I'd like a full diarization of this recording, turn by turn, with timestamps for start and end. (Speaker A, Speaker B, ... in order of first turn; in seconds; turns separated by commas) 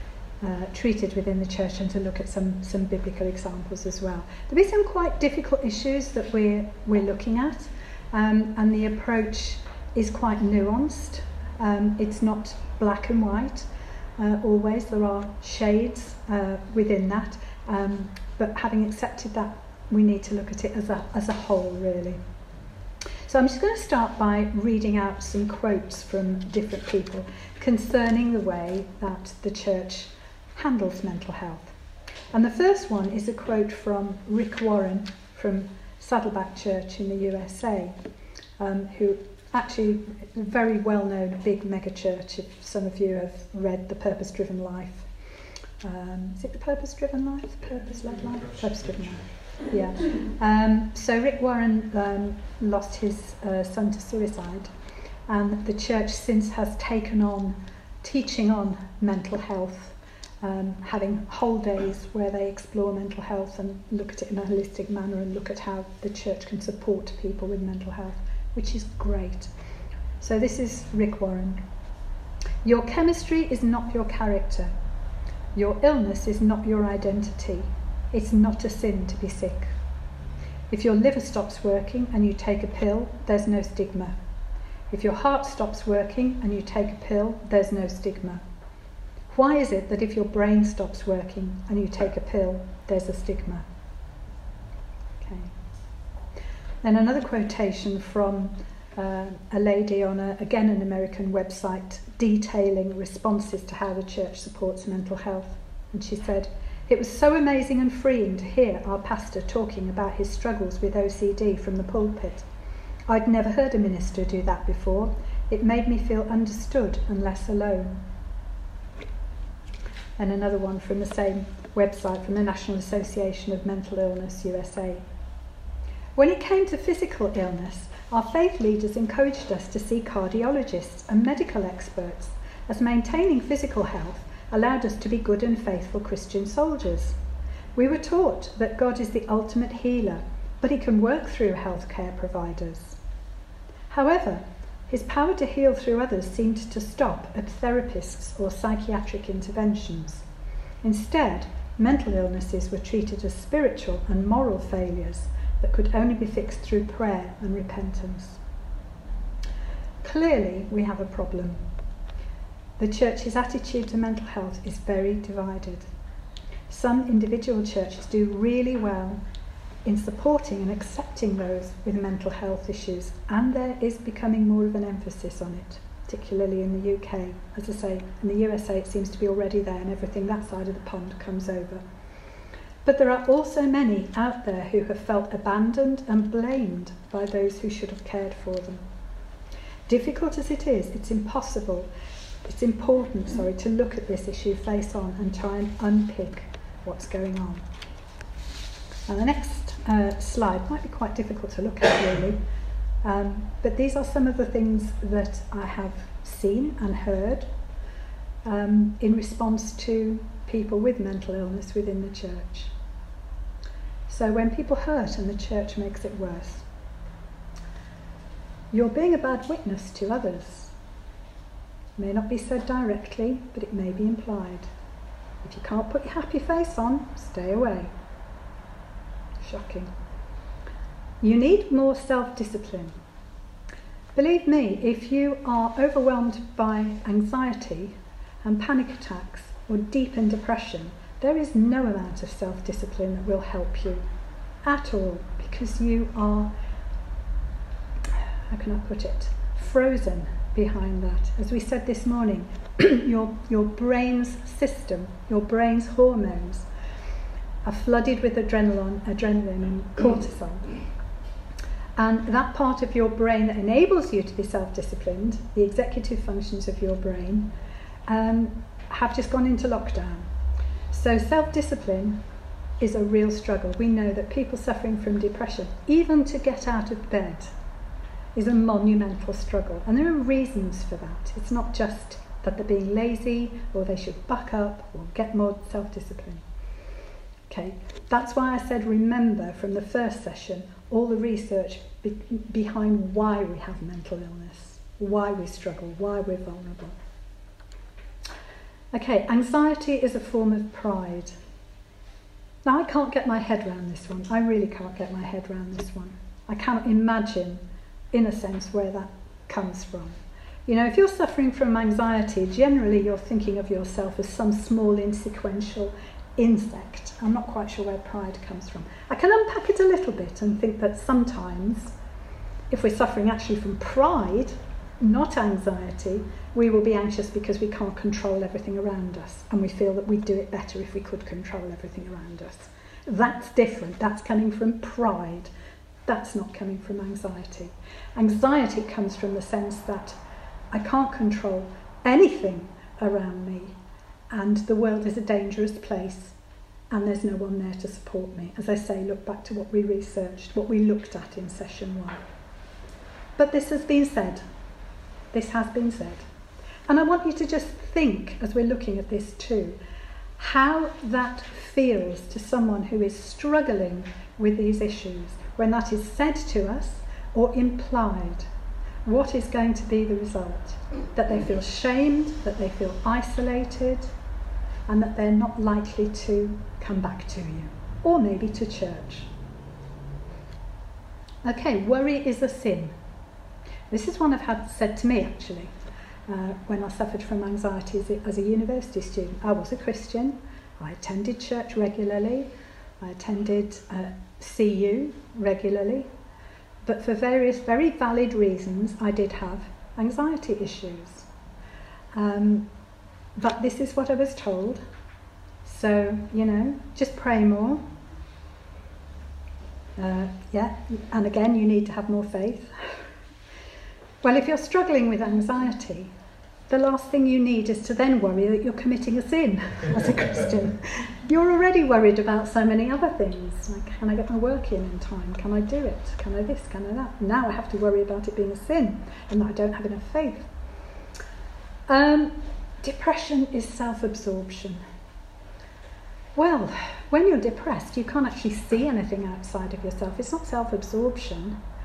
Speaker A: 0.4-22.2, Speaker A: 23.3-31.8, Speaker A: 32.3-38.0, Speaker A: 38.6-45.1, Speaker A: 45.8-54.7, Speaker A: 55.3-69.5, Speaker A: 70.2-71.6, Speaker A: 72.6-74.7, Speaker A: 75.5-79.8, Speaker A: 80.7-84.2, Speaker A: 84.9-88.4, Speaker A: 89.3-93.7, Speaker A: 95.2-95.5, Speaker A: 96.8-112.5, Speaker A: 113.1-118.0, Speaker A: 120.2-125.0, Speaker A: 126.2-137.2, Speaker A: 137.8-143.0, Speaker A: 143.9-150.3, Speaker A: 150.8-158.4, Speaker A: 160.0-161.6, Speaker A: 162.8-165.9, Speaker A: 166.7-169.2, Speaker A: 169.8-181.8, Speaker A: 182.8-188.8, Speaker A: 189.9-191.9, Speaker A: 192.4-197.7, Speaker A: 199.1-202.4, Speaker A: 203.0-207.5, Speaker A: 208.4-212.7, Speaker A: 214.1-216.7, Speaker A: 218.7-220.8, Speaker A: 222.0-224.7, Speaker A: 225.4-227.9, Speaker A: 229.4-229.9, Speaker A: 231.2-233.0, Speaker A: 234.2-244.1, Speaker A: 244.6-246.5, Speaker A: 248.5-256.7, Speaker A: 257.6-260.7, Speaker A: 262.0-267.5, Speaker A: 268.1-270.3, Speaker A: 270.9-272.2, Speaker A: 272.8-277.5, Speaker A: 278.4-286.4, Speaker A: 287.5-297.0, Speaker A: 298.9-301.4, Speaker A: 302.6-321.9, Speaker A: 322.7-335.5, Speaker A: 336.1-340.2, Speaker A: 340.7-343.8, Speaker A: 344.3-346.4, Speaker A: 346.9-352.2, Speaker A: 353.4-354.4, Speaker A: 355.3-356.3, Speaker A: 356.9-359.8, Speaker A: 360.4-368.5, Speaker A: 369.1-374.1, Speaker A: 374.9-379.3, Speaker A: 381.4-383.0, Speaker A: 383.9-385.8, Speaker A: 386.3-396.1, Speaker A: 396.9-401.3, Speaker A: 402.1-402.7, Speaker A: 403.4-404.8, Speaker A: 405.6-407.9, Speaker A: 410.0-413.0, Speaker A: 414.2-416.1, Speaker A: 416.7-430.5, Speaker A: 431.9-434.8, Speaker A: 436.4-441.6